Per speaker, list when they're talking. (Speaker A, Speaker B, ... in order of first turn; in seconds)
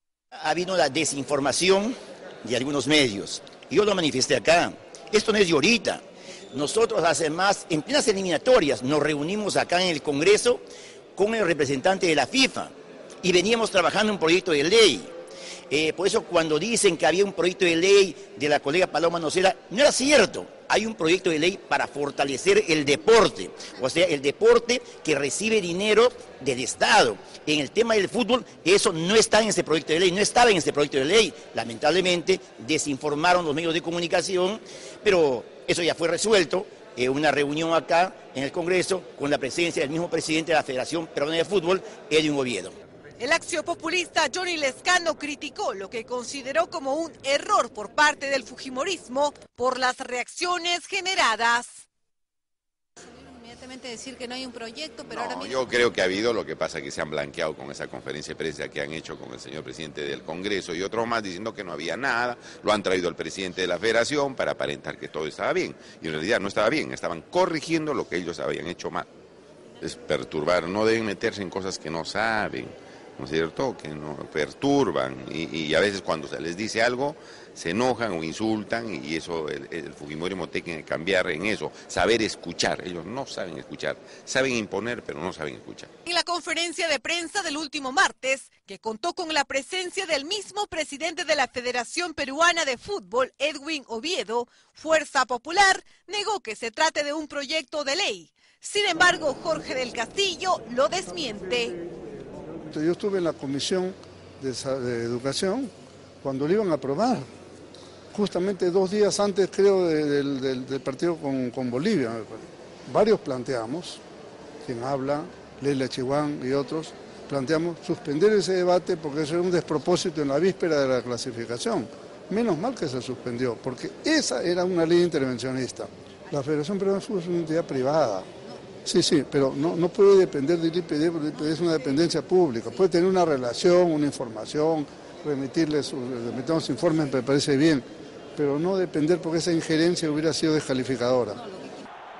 Speaker A: 0.3-10.6, 11.2-15.1, 15.7-42.7
Speaker B: 43.2-51.9, 86.0-101.8
Speaker C: 53.0-55.6
Speaker D: 55.1-69.1, 69.8-85.9
Speaker E: 102.7-105.7, 106.2-107.3, 108.1-114.0, 114.6-128.3, 128.8-137.8, 138.3-141.4